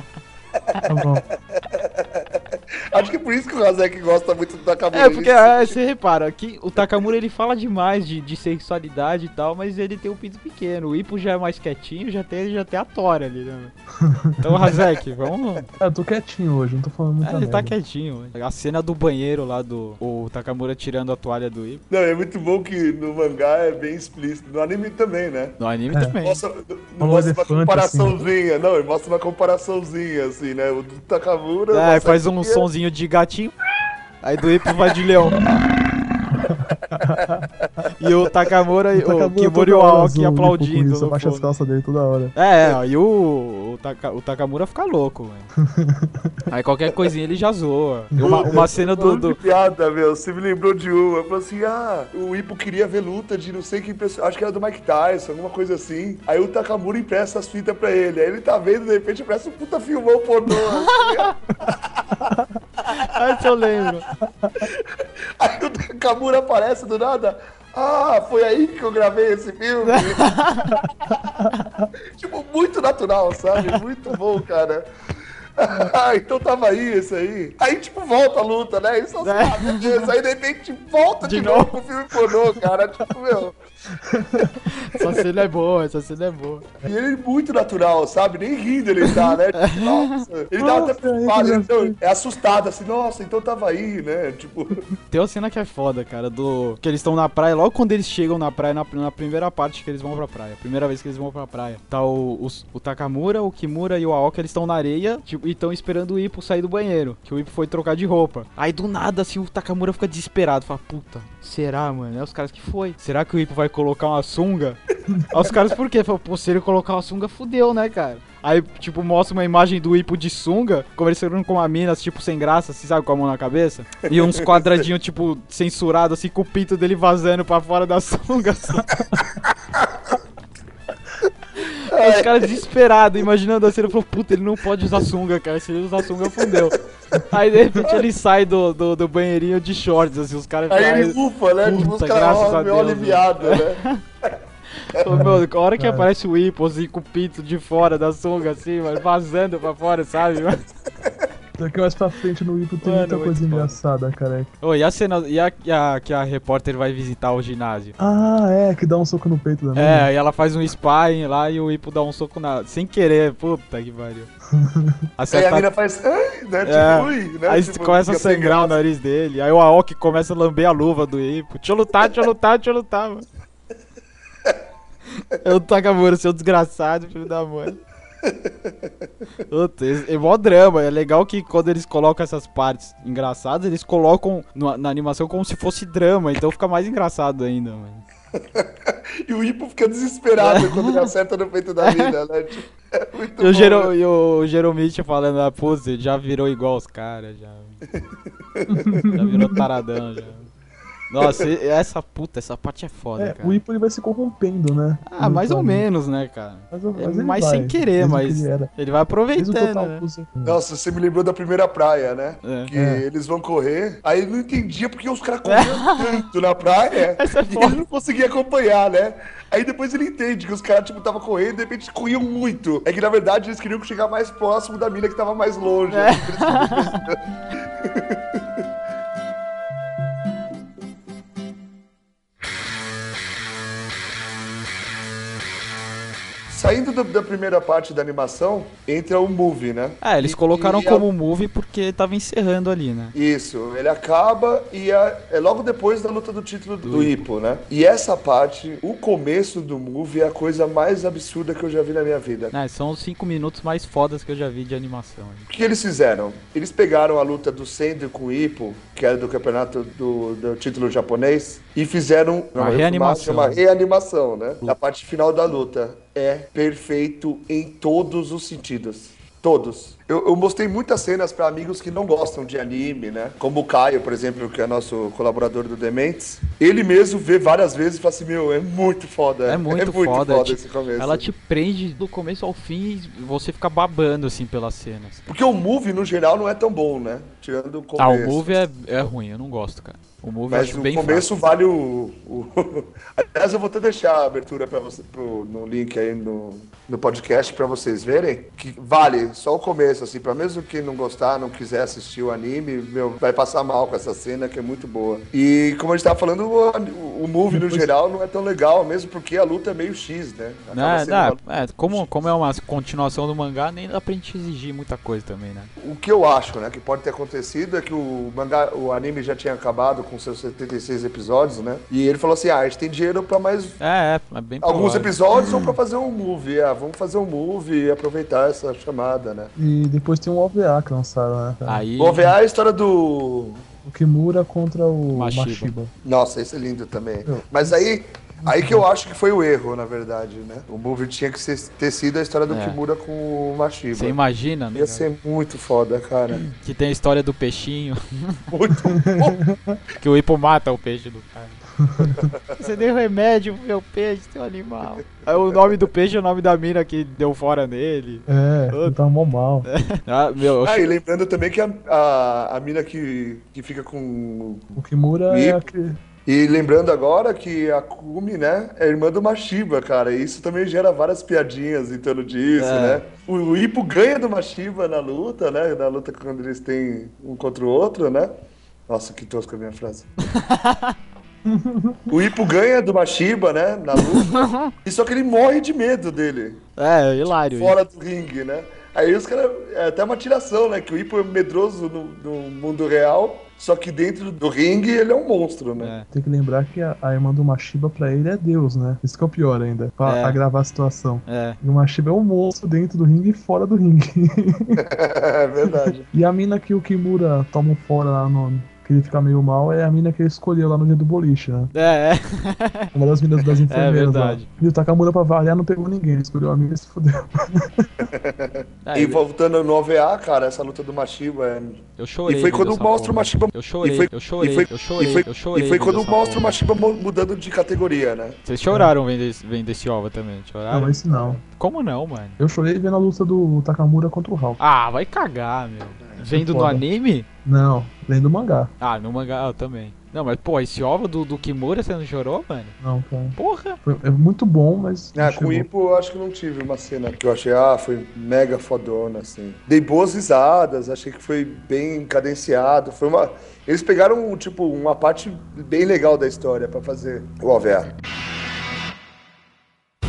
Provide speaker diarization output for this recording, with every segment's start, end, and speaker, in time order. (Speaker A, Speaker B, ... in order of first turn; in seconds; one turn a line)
Speaker A: 0.7-5.8
Speaker B: 0.9-1.2
Speaker C: 4.9-13.7
Speaker B: 14.0-14.6
Speaker C: 14.4-15.7
Speaker B: 15.8-17.7
Speaker C: 17.2-21.8
Speaker A: 21.9-25.6
Speaker C: 25.6-26.4
Speaker B: 25.9-26.2
Speaker A: 26.2-32.7
Speaker B: 27.0-28.2
Speaker C: 31.7-33.5
Speaker C: 34.2-35.6
Speaker B: 36.4-37.4
Speaker A: 36.8-37.7
Speaker C: 38.0-41.5
Speaker B: 39.0-42.4
Speaker C: 42.4-45.5
Speaker B: 45.6-46.4
Speaker C: 46.5-49.4
Speaker B: 48.1-48.6
Speaker A: 48.2-63.9
Speaker C: 60.9-61.3
Speaker B: 61.7-62.5
Speaker C: 62.9-64.1
Speaker A: 64.6-71.5
Speaker C: 69.8-70.8
Speaker B: 71.4-71.9
Speaker A: 72.1-74.8
Speaker A: 75.6-83.6
Speaker C: 79.2-80.1
Speaker C: 81.2-81.8
Speaker B: 83.9-84.6
Speaker C: 84.7-86.7
Speaker A: 86.8-94.9
Speaker C: 89.1-90.2
Speaker B: 90.6-92.0
Speaker C: 95.1-128.9
Speaker A: 124.1-124.6
Speaker C: 131.6-144.0
Speaker A: 131.9-132.6
Speaker A: 136.2-136.7
Speaker A: 140.7-144.3
Speaker C: 144.8-150.6
Speaker B: 145.1-146.1
Speaker B: 151.6-154.5
Speaker C: 152.8-153.8
Speaker C: 154.6-158.0
Speaker B: 158.0-160.1
Speaker C: 159.8-164.3
Speaker B: 164.5-165.0
Speaker C: 165.2-165.7
Speaker A: 165.3-168.8
Speaker C: 166.6-173.3
Speaker C: 175.2-177.8
Speaker A: 178.2-178.9
Speaker C: 179.5-188.1
Speaker A: 188.5-193.9
Speaker C: 190.4-191.1
Speaker C: 191.8-192.2
Speaker C: 193.4-197.8
Speaker A: 197.9-199.1
Speaker B: 198.7-199.7
Speaker C: 199.1-200.5
Speaker C: 201.1-203.6
Speaker B: 203.2-205.9
Speaker C: 205.1-210.0
Speaker B: 206.7-208.7
Speaker B: 209.4-210.6
Speaker A: 210.4-228.4
Speaker C: 212.4-212.7
Speaker B: 212.7-213.1
Speaker C: 215.4-216.3
Speaker C: 217.2-217.8
Speaker C: 225.9-227.0
Speaker A: 236.5-241.1
Speaker C: 240.0-243.2
Speaker A: 243.2-252.5
Speaker C: 246.8-247.2
Speaker C: 252.5-255.5
Speaker A: 255.5-281.3
Speaker C: 262.6-263.6
Speaker C: 279.5-285.2
Speaker A: 285.3-288.6
Speaker C: 288.0-291.4
Speaker A: 290.5-312.3
Speaker B: 307.5-307.9
Speaker C: 310.7-315.7
Speaker A: 315.8-323.8
Speaker C: 323.8-325.1
Speaker A: 324.6-329.5
Speaker B: 329.6-331.8
Speaker C: 331.7-332.3
Speaker A: 332.0-333.6
Speaker B: 333.9-335.9
Speaker C: 335.1-335.7
Speaker A: 336.0-344.2
Speaker B: 337.3-337.8
Speaker B: 338.4-338.9
Speaker C: 342.5-342.8
Speaker C: 343.9-345.1
Speaker A: 344.8-346.4
Speaker C: 346.4-348.4
Speaker A: 348.5-349.4
Speaker B: 348.8-349.8
Speaker C: 350.0-351.6
Speaker B: 351.8-352.1
Speaker A: 352.0-352.6
Speaker C: 352.6-359.0
Speaker B: 358.3-359.7
Speaker C: 359.7-360.9
Speaker A: 360.4-364.8
Speaker B: 364.8-366.0
Speaker A: 365.3-365.6
Speaker A: 366.3-378.3
Speaker C: 372.6-373.0
Speaker A: 378.9-380.1
Speaker C: 380.3-381.0
Speaker B: 381.4-382.1
Speaker A: 382.1-386.6
Speaker C: 383.9-384.7
Speaker C: 386.8-387.8
Speaker A: 387.5-395.9
Speaker C: 395.8-396.1
Speaker B: 396.1-404.8
Speaker C: 400.1-400.4
Speaker C: 401.3-401.6
Speaker A: 404.8-406.1
Speaker B: 405.6-411.7
Speaker C: 411.7-412.9
Speaker B: 412.9-418.1
Speaker C: 413.5-414.5
Speaker A: 418.0-428.4
Speaker C: 418.8-419.2
Speaker C: 422.0-426.6
Speaker C: 428.4-432.4
Speaker B: 430.7-431.4
Speaker B: 432.4-434.6
Speaker C: 434.6-437.3
Speaker A: 436.0-436.3
Speaker B: 436.3-436.8
Speaker B: 437.4-438.7
Speaker C: 438.8-442.8
Speaker B: 442.8-445.7
Speaker C: 443.4-443.8
Speaker A: 445.1-457.9